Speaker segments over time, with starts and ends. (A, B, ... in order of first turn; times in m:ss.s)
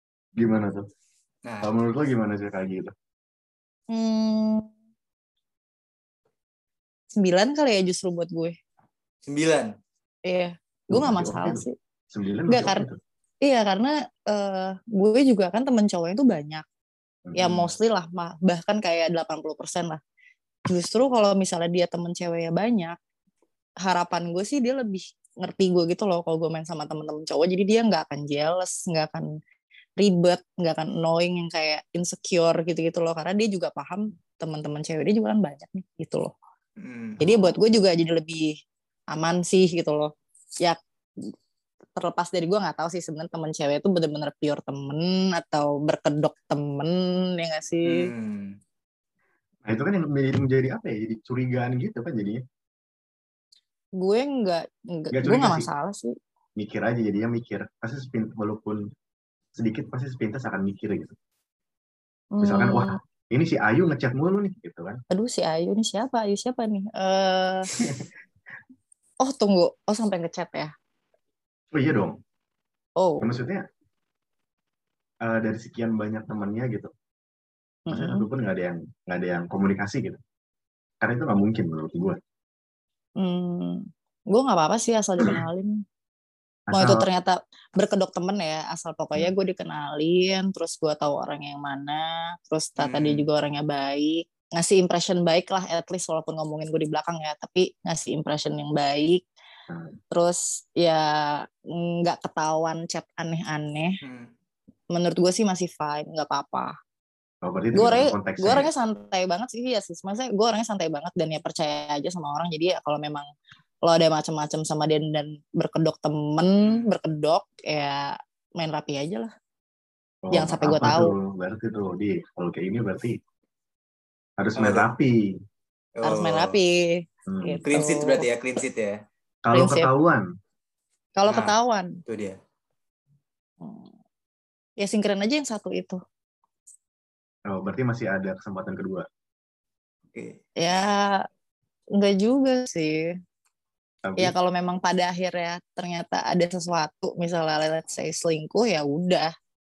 0:00.4-0:00.9 A
0:01.4-0:01.7 B
0:01.6-0:02.9 A
0:03.9-0:04.7 C
0:07.1-0:08.6 C
0:09.2-0:09.7 B
0:10.3-0:11.8 C
0:10.9-0:13.0 A
0:12.5-0:12.8 C
0:13.4-0:16.6 C
0:17.3-0:17.5 A
0:17.4-0:20.0 C
0:17.4-0:17.7 B
0:20.7-0:23.0 C
0:23.8-0:29.3 C
0:30.0-0:36.3 C
0:36.8-0:37.2 B
0:37.2-0:38.6 C
0:39.1-0:40.8 C
0:42.0-0:48.1 C
0:47.8-0:48.6 B
0:49.7-0:52.4 A
0:54.0-0:56.2 C
0:55.1-0:55.7 A
0:56.6-0:58.9 A
0:59.6-1:01.2 A
1:02.4-1:03.0 C
1:02.4-1:05.0 A
1:05.1-1:07.7 C
1:07.8-1:08.0 A
1:09.2-1:10.7 C
1:11.7-1:12.2 A
1:13.0-1:13.3 C
1:13.2-1:13.7 A
1:15.2-1:16.9 A
1:17.9-1:18.3 C
1:17.9-1:20.2 A
1:21.0-1:22.2 A
1:23.2-1:25.8 C
1:26.7-1:27.1 A
1:26.7-1:39.2 C
1:32.8-1:33.3 B
1:40.1-1:44.0 C
1:44.0-1:44.3 B
1:44.9-1:46.8 C
1:47.4-1:48.7 A
1:47.8-1:53.3 C
1:53.8-1:59.3 C
2:00.3-2:03.2 A
2:00.3-2:01.2 C
2:04.4-2:05.4 A
2:04.6-2:04.9 B
2:06.0-2:06.6 B
2:06.0-2:08.2 C
2:07.3-2:07.6 A
2:07.7-2:09.0 B
2:09.4-2:10.3 A
2:09.5-2:09.9 C
2:11.2-2:12.0 C
2:11.3-2:11.5 B
2:12.1-2:12.4 B
2:13.6-2:13.9 C
2:14.8-2:16.0 C
2:17.5-2:19.1 A
2:20.1-2:20.4 B
2:20.6-2:21.2 C
2:22.0-2:23.2 C
2:24.0-2:24.3 A
2:24.2-2:29.3 C